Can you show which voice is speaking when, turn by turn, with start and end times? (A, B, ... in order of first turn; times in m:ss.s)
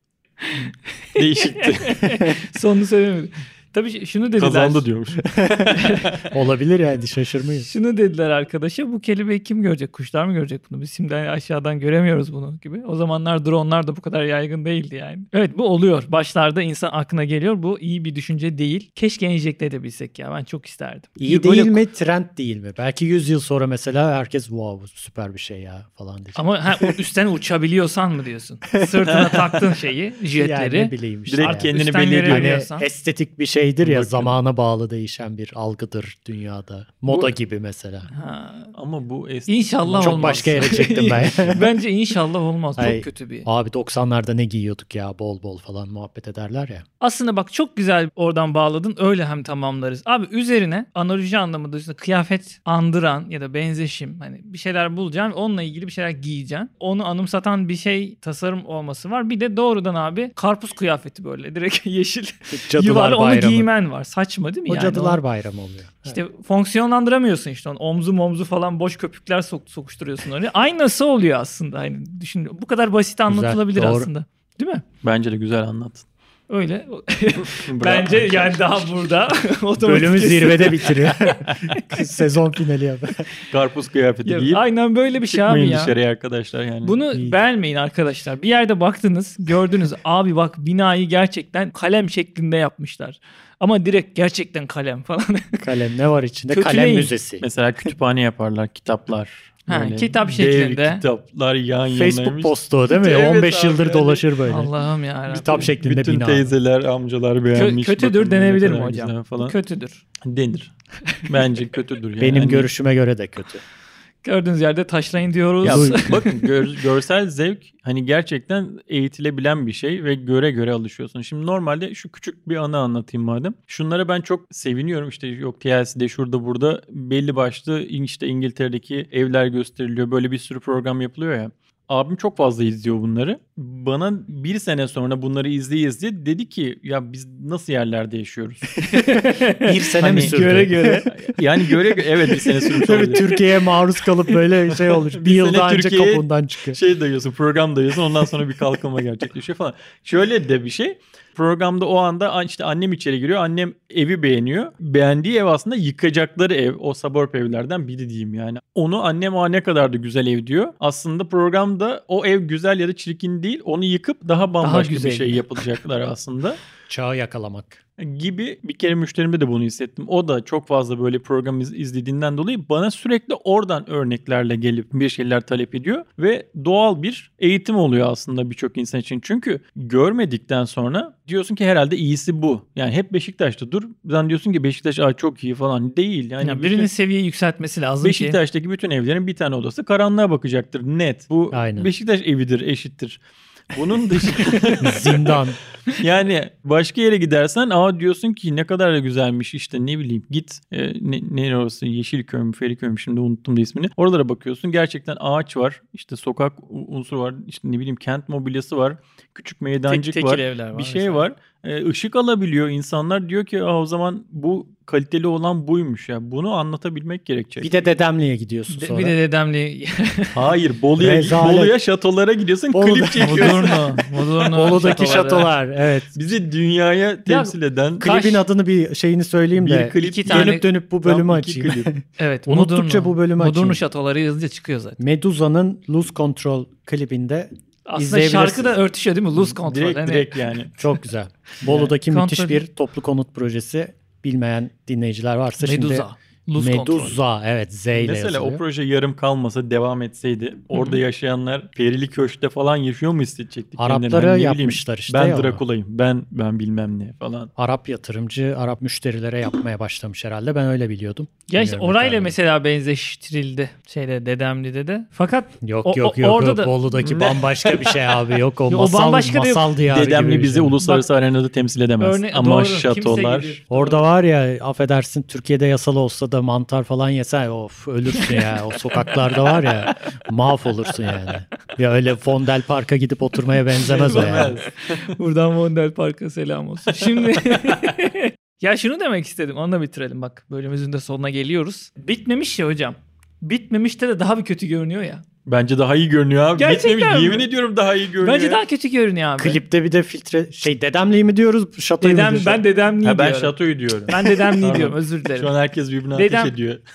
0:00.4-0:04.9 A
0:01.2-0:02.2 B
0:04.4-0:06.2 B
0:05.3-0:07.7 C
0:05.8-0:06.0 A
0:07.6-0:21.8 A
0:21.2-0:27.0 C
0:26.3-0:32.8 A
0:28.7-0:29.1 C
0:29.1-0:29.6 B
0:30.3-0:31.7 C
0:31.3-0:32.6 B
0:32.2-0:38.1 C
0:33.8-0:34.3 B
0:38.1-0:38.7 A
0:38.7-0:41.5 B
0:39.5-0:43.5 A
0:39.9-0:41.6 C
0:42.8-0:46.8 C
0:47.0-1:05.2 A
1:02.5-1:03.7 C
1:04.7-1:06.2 C
1:06.0-1:14.8 A
1:13.3-1:14.1 C
1:15.0-1:16.0 B
1:16.5-1:22.0 A
1:17.4-1:18.6 B
1:19.8-1:23.2 C
1:23.5-1:24.6 B
1:24.2-1:25.9 A
1:25.2-1:27.0 B
1:26.8-1:35.6 A
1:27.1-1:27.4 C
1:35.6-1:37.4 C
1:36.5-1:37.1 A
1:37.4-1:44.3 B
1:39.7-1:41.0 A
1:41.9-1:44.7 C
1:44.4-1:45.7 A
1:45.3-1:46.6 C
1:45.4-1:49.6 B
1:47.5-1:50.0 A
1:50.2-1:50.7 B
1:51.2-1:52.7 B
1:52.2-1:53.6 C
1:54.2-1:56.4 A
1:55.6-2:18.8 B
1:55.6-1:56.1 C
2:18.9-2:21.1 A
2:19.6-2:26.8 C
2:20.0-2:20.4 B
2:21.1-2:23.4 B
2:24.7-2:46.6 B
2:44.6-2:45.4 A
2:46.9-2:47.8 C
2:48.0-3:06.9 B
3:06.4-3:08.4 A
3:08.0-3:13.2 B
3:11.5-3:11.9 C
3:13.7-3:37.7 B
3:14.4-3:15.6 C
3:29.9-3:31.2 A
3:37.6-3:39.2 C
3:38.7-3:40.5 A
3:40.3-3:43.9 B
3:41.0-3:41.7 C
3:42.7-3:43.8 C
3:43.2-3:45.5 A
3:44.5-3:46.2 C
3:44.7-3:45.4 B
3:46.1-3:48.1 B
3:47.2-3:48.4 A
3:48.0-3:53.8 C
3:49.6-3:51.9 B
3:49.9-3:50.7 A
3:52.2-3:55.0 A
3:55.0-3:58.8 C
3:57.9-4:00.3 A
3:59.4-4:00.8 B
4:00.8-4:08.6 C
4:01.7-4:02.6 A
4:05.6-4:07.2 A
4:07.9-4:17.5 B
4:10.7-4:11.0 A
4:13.8-4:15.6 C
4:17.6-4:22.4 C
4:21.5-4:26.8 A
4:25.6-4:30.8 C
4:27.0-4:28.1 B
4:28.7-4:29.7 A
4:29.9-4:33.6 B
4:30.8-4:31.1 A
4:32.0-4:34.0 A
4:33.7-4:44.5 C
4:38.1-4:39.9 A
4:43.8-4:45.1 B
4:43.8-4:55.2 A
4:47.0-4:47.8 B
4:55.4-4:58.6 B
4:56.6-4:57.4 A
4:58.2-4:59.6 A
4:59.4-5:02.6 C
5:02.0-5:05.5 A
5:03.0-5:06.8 B
5:06.1-5:06.5 A